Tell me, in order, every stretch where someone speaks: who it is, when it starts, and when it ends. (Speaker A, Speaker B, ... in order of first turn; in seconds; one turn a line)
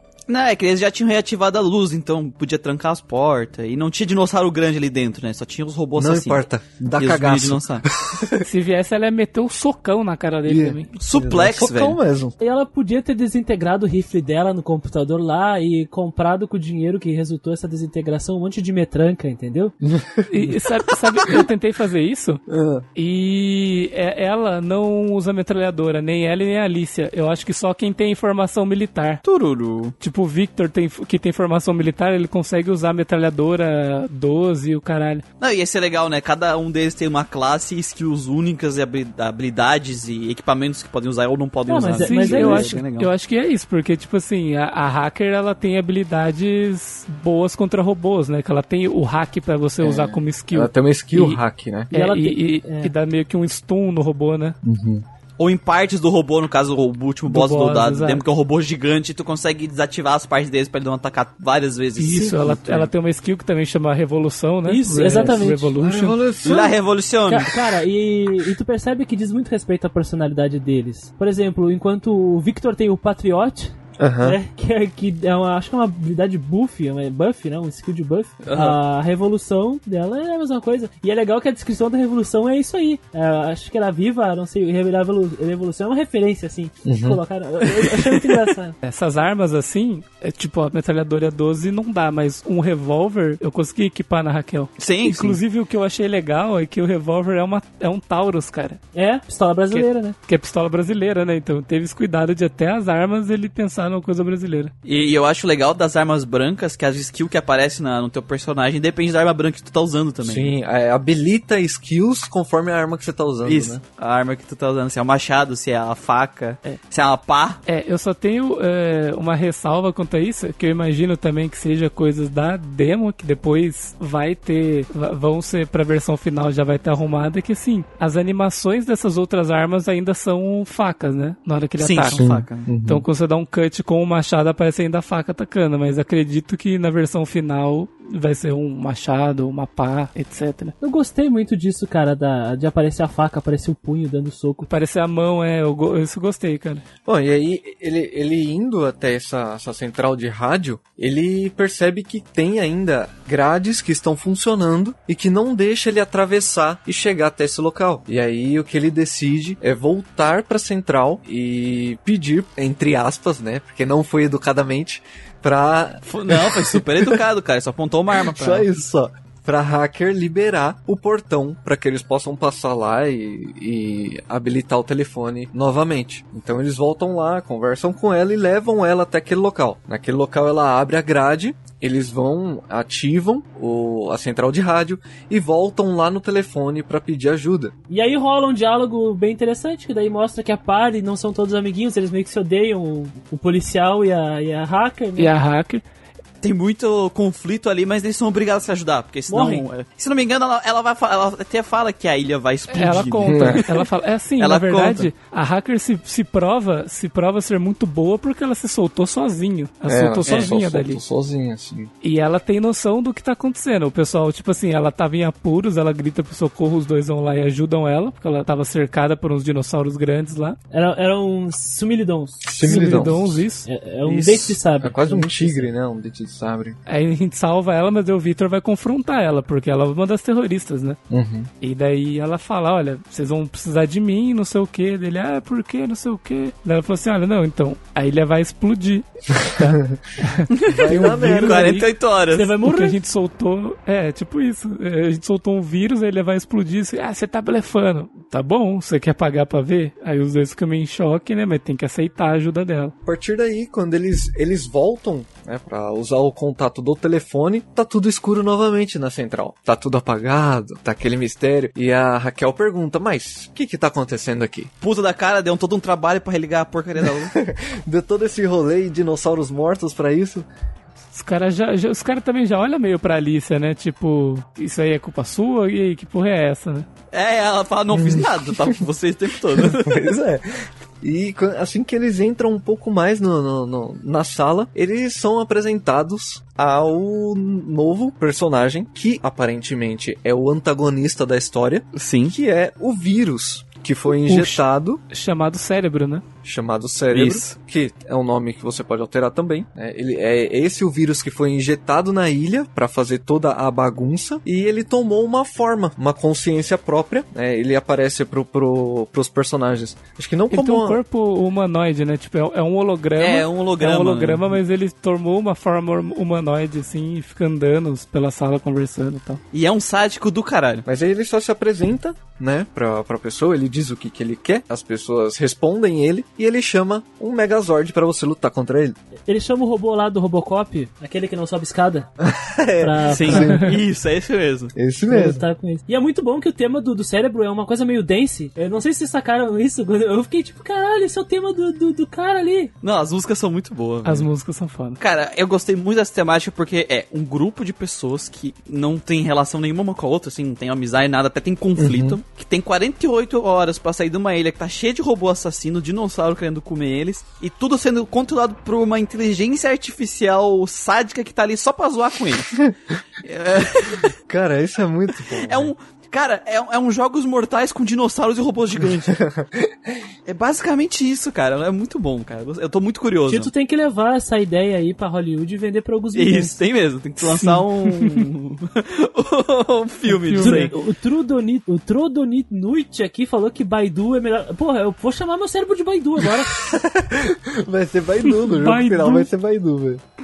Speaker A: 0.3-7.9
Speaker B: 6.0-8.4
Speaker C: 8.4-10.9
Speaker B: 10.4-12.4
Speaker A: 11.0-12.0
Speaker D: 12.4-19.8
Speaker B: 19.8-20.5
Speaker C: 20.3-22.4
Speaker B: 22.5-22.9
Speaker C: 22.9-29.2
Speaker A: 29.2-29.9
Speaker C: 30.0-35.2
Speaker A: 35.4-43.1
Speaker D: 41.7-42.8
Speaker C: 42.0-51.4
Speaker B: 49.8-51.9
Speaker C: 51.9-54.6
Speaker D: 51.9-52.9
Speaker B: 54.6-55.0
Speaker A: 55.4-62.9
Speaker C: 57.3-58.2
Speaker C: 62.0-66.2
Speaker D: 64.7-65.7
Speaker B: 65.1-66.8
Speaker A: 66.5-67.5
Speaker D: 67.3-88.8
Speaker B: 74.0-74.4
Speaker A: 78.4-78.8
Speaker B: 86.8-87.2
Speaker C: 88.8-98.8
Speaker A: 94.8-95.4
Speaker D: 98.9-100.2
Speaker C: 99.7-104.7
Speaker A: 104.8-110.5
Speaker B: 110.2-113.8
Speaker A: 113.5-117.6
Speaker C: 117.7-132.2
Speaker A: 131.8-132.7
Speaker B: 132.1-133.1
Speaker C: 132.8-140.7
Speaker D: 140.8-144.7
Speaker C: 144.7-146.8
Speaker B: 147.1-167.2
Speaker A: 166.1-168.7
Speaker B: 168.2-187.7
Speaker D: 187.9-195.3
Speaker C: 195.2-195.8
Speaker A: 196.4-205.1
Speaker D: 199.3-199.7
Speaker C: 202.7-211.0
Speaker B: 203.2-203.6
Speaker B: 209.9-211.9
Speaker A: 210.2-210.6
Speaker C: 212.0-220.6
Speaker D: 220.7-225.7
Speaker B: 222.4-223.4
Speaker C: 222.7-223.7
Speaker B: 224.1-226.8
Speaker C: 226.9-231.0
Speaker B: 231.1-231.5
Speaker C: 231.6-241.9
Speaker A: 240.5-242.5
Speaker B: 240.6-241.8
Speaker D: 242.3-243.0
Speaker C: 242.6-252.9
Speaker B: 253.1-264.7
Speaker A: 264.8-267.4
Speaker B: 267.0-270.5
Speaker C: 271.1-276.9
Speaker A: 277.1-280.1
Speaker B: 277.9-278.3
Speaker B: 279.7-295.0
Speaker A: 291.9-292.3
Speaker C: 294.2-296.2
Speaker B: 296.4-311.0
Speaker A: 297.1-297.6
Speaker C: 310.5-319.4
Speaker A: 313.2-314.6
Speaker A: 319.5-320.9
Speaker B: 320.9-329.0
Speaker D: 329.3-332.1
Speaker B: 332.2-333.7
Speaker D: 332.8-333.6
Speaker A: 333.1-334.7
Speaker B: 334.8-335.4
Speaker D: 335.1-342.7
Speaker A: 342.8-344.3
Speaker C: 344.1-345.0
Speaker A: 345.0-362.6
Speaker B: 351.8-352.2
Speaker A: 363.2-364.1
Speaker B: 364.3-365.7
Speaker A: 365.4-369.2
Speaker B: 369.1-369.7
Speaker A: 370.3-373.5
Speaker D: 373.3-376.6
Speaker A: 376.1-380.7
Speaker C: 377.2-378.1
Speaker C: 380.1-380.8
Speaker D: 380.4-386.8
Speaker B: 386.5-390.0
Speaker C: 388.3-389.3